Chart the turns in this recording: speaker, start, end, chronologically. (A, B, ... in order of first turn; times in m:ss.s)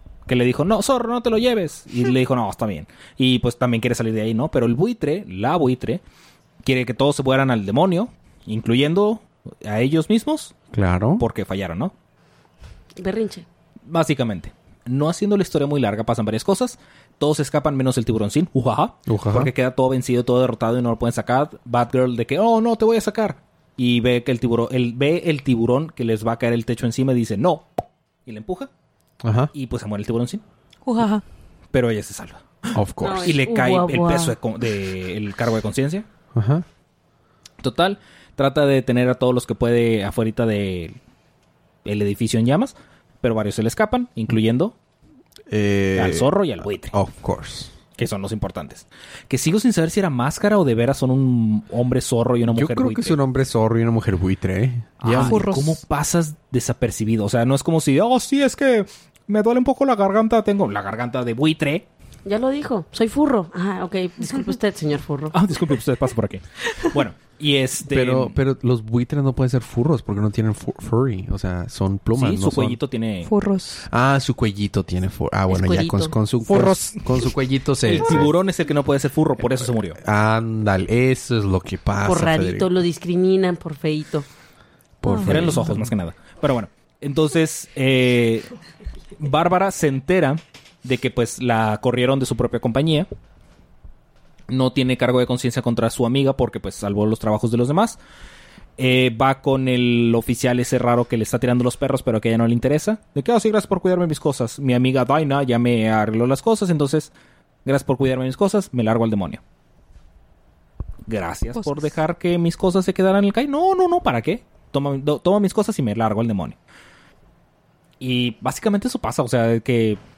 0:00.3-0:06.0 A
0:06.6-0:10.6 A
0:10.7-0:11.2 B
0:11.2-0:11.9 A
0:13.0-0:13.5 C
0:13.9-0:27.7 A
0:19.1-0:19.5 B
0:28.3-0:28.7 A
0:29.2-0:29.5 B
0:29.5-0:30.4 A
0:30.8-0:31.2 D
0:31.7-0:36.1 A
0:32.7-0:33.3 B
0:33.0-0:34.4 C
0:36.3-0:36.6 B
0:37.6-0:41.0 A
0:41.8-0:44.8 A
0:45.5-0:46.3 B
0:46.0-0:47.0 A
0:46.9-0:47.8 B
0:48.0-0:53.2 A
0:52.5-0:55.4 B
0:55.0-1:01.9 A
0:55.2-0:55.8 D
1:02.2-1:05.4 C
1:05.3-1:08.4 A
1:07.9-1:12.8 B
1:12.1-1:13.3 A
1:13.2-1:13.9 D
1:13.9-1:18.4 B
1:15.5-1:16.2 C
1:16.5-1:17.0 A
1:17.8-1:20.0 A
1:20.0-1:22.7 B
1:22.0-1:24.3 C
1:25.0-1:25.9 B
1:25.1-1:25.5 D
1:25.2-1:28.5 A
1:29.2-1:33.1 A
1:34.5-1:38.0 A
1:38.8-1:47.1 A
1:47.6-1:49.4 A
1:51.1-1:56.6 A
1:51.6-1:51.9 D
1:58.0-2:00.0 A